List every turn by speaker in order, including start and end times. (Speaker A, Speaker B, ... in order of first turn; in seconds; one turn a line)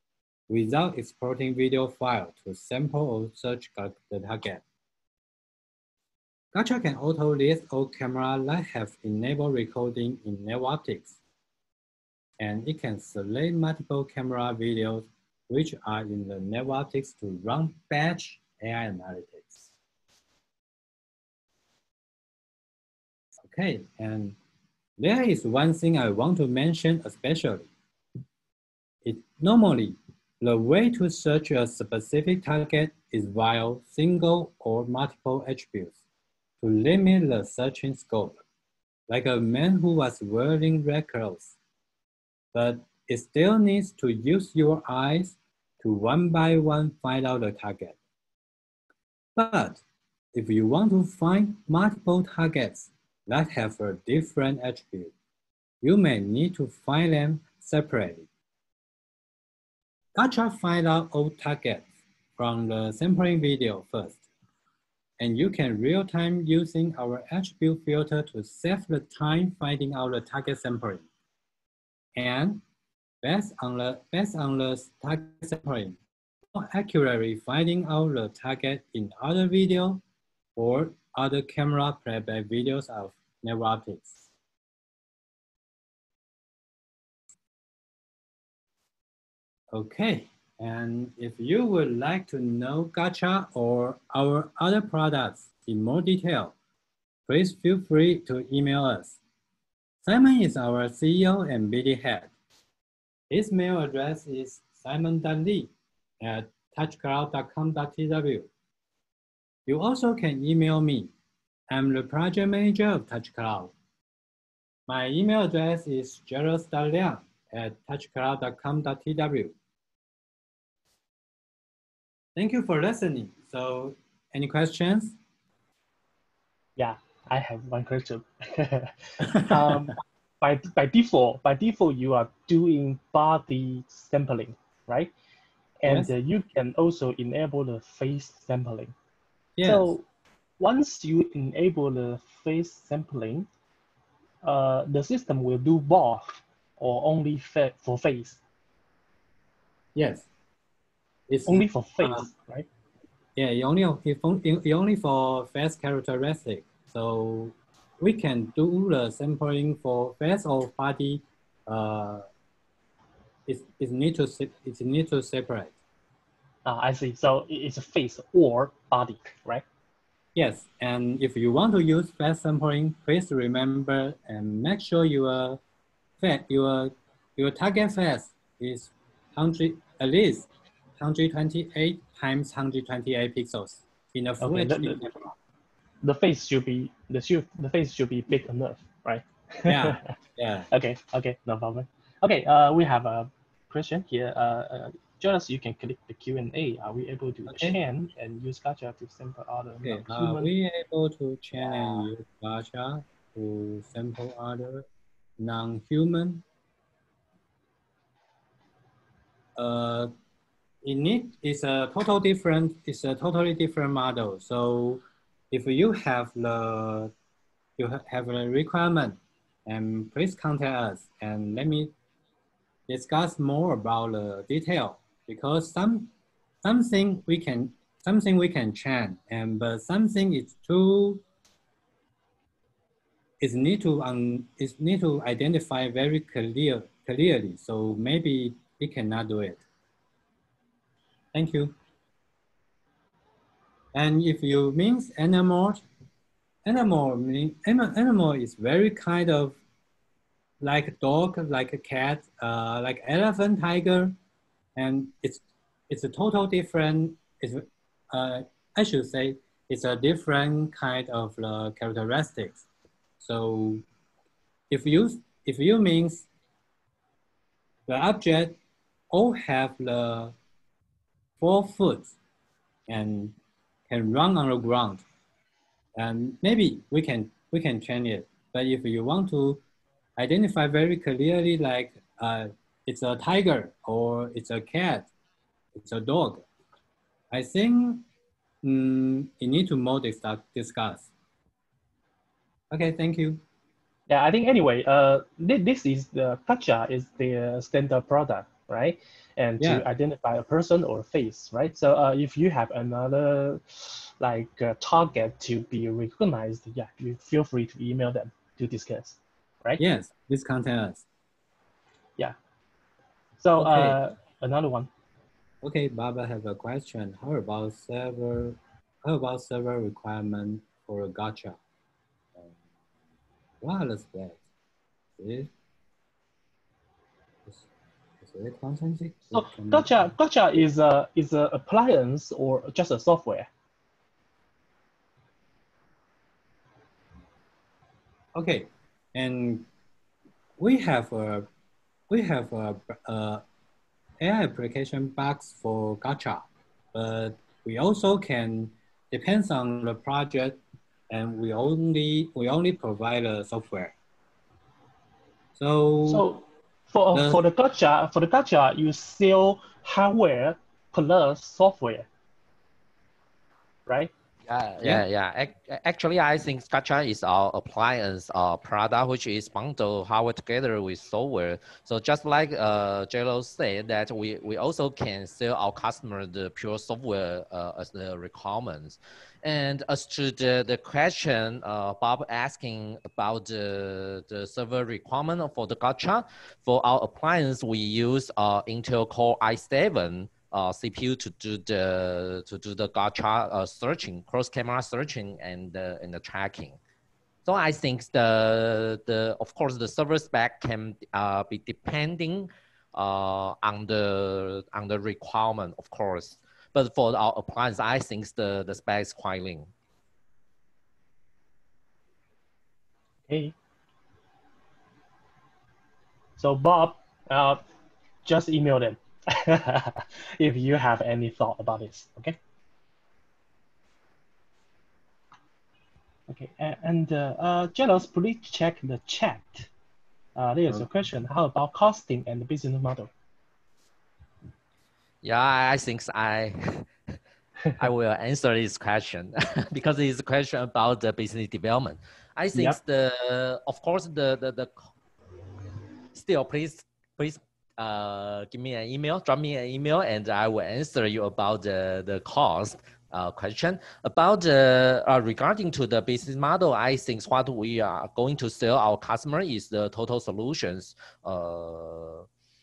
Speaker A: 0.5-4.6
Speaker A: 6.5-11.2
Speaker A: 12.4-19.7
Speaker A: 23.4-24.4
Speaker A: 25.0-27.7
Speaker A: 29.0-36.0
Speaker A: 36.6-38.4
Speaker A: 39.1-41.5
Speaker A: 42.5-48.0
Speaker A: 49.4-49.8
Speaker A: 50.3-55.1
Speaker A: 55.8-58.3
Speaker A: 60.1-64.2
Speaker A: 65.2-71.0
Speaker A: 72.2-72.6
Speaker A: 73.2-76.0
Speaker A: 76.5-80.0
Speaker A: 80.5-84.2
Speaker A: 89.7-96.5
Speaker A: 97.3-99.2
Speaker A: 100.0-102.3
Speaker A: 103.3-108.5
Speaker A: 109.7-111.1
Speaker A: 111.7-113.7
Speaker A: 114.9-119.5
Speaker A: 122.3-125.2
Speaker B: 126.8-135.1
Speaker A: 129.4-129.8
Speaker B: 135.8-138.9
Speaker A: 135.9-136.1
Speaker A: 139.6-139.9
Speaker B: 139.6-140.0
Speaker B: 140.6-143.5
Speaker B: 144.4-148.4
Speaker A: 149.9-150.3
Speaker A: 151.3-152.2
Speaker B: 151.4-152.7
Speaker A: 153.3-162.2
Speaker A: 163.5-165.7
Speaker B: 166.6-169.6
Speaker A: 170.3-175.6
Speaker A: 176.2-185.3
Speaker B: 184.4-185.0
Speaker B: 186.0-190.1
Speaker A: 189.7-190.7
Speaker B: 190.7-200.5
Speaker A: 197.5-197.8
Speaker A: 199.8-204.8
Speaker A: 205.4-206.4
Speaker A: 209.6-210.1
Speaker A: 210.8-217.1
Speaker A: 217.8-221.9
Speaker A: 222.9-226.1
Speaker A: 226.6-231.2
Speaker A: 233.4-239.6
Speaker A: 241.3-241.8
Speaker A: 243.9-245.8
Speaker A: 246.6-249.6
Speaker A: 250.6-254.2
Speaker A: 254.8-262.6
Speaker A: 263.2-263.8
Speaker A: 264.7-266.3
Speaker A: 267.9-268.6
Speaker A: 269.1-270.3
Speaker A: 271.4-272.1
Speaker A: 272.9-273.4
Speaker A: 273.9-275.0
Speaker A: 275.9-279.6
Speaker A: 280.2-285.1
Speaker A: 285.7-286.4
Speaker A: 287.3-288.1
Speaker A: 288.6-291.1
Speaker A: 292.7-293.4
Speaker B: 294.1-309.8
Speaker A: 299.6-299.8
Speaker A: 309.8-311.1
Speaker B: 313.4-314.9
Speaker A: 313.6-314.0
Speaker A: 315.6-321.6
Speaker A: 323.6-324.4
Speaker A: 325.2-325.5
Speaker A: 328.2-329.9
Speaker B: 329.3-333.5
Speaker A: 338.3-339.7
Speaker A: 340.6-341.5
Speaker A: 342.1-343.4
Speaker A: 344.2-353.9
Speaker A: 355.6-356.2
Speaker B: 356.1-362.1
Speaker A: 357.1-357.4
Speaker C: 364.5-396.8
Speaker C: 397.4-409.7
Speaker B: 413.3-413.5
Speaker B: 416.4-417.6
Speaker B: 418.2-422.4
Speaker B: 426.3-429.7
Speaker B: 430.4-433.1
Speaker C: 435.2-436.9
Speaker C: 437.8-444.7
Speaker C: 446.1-462.2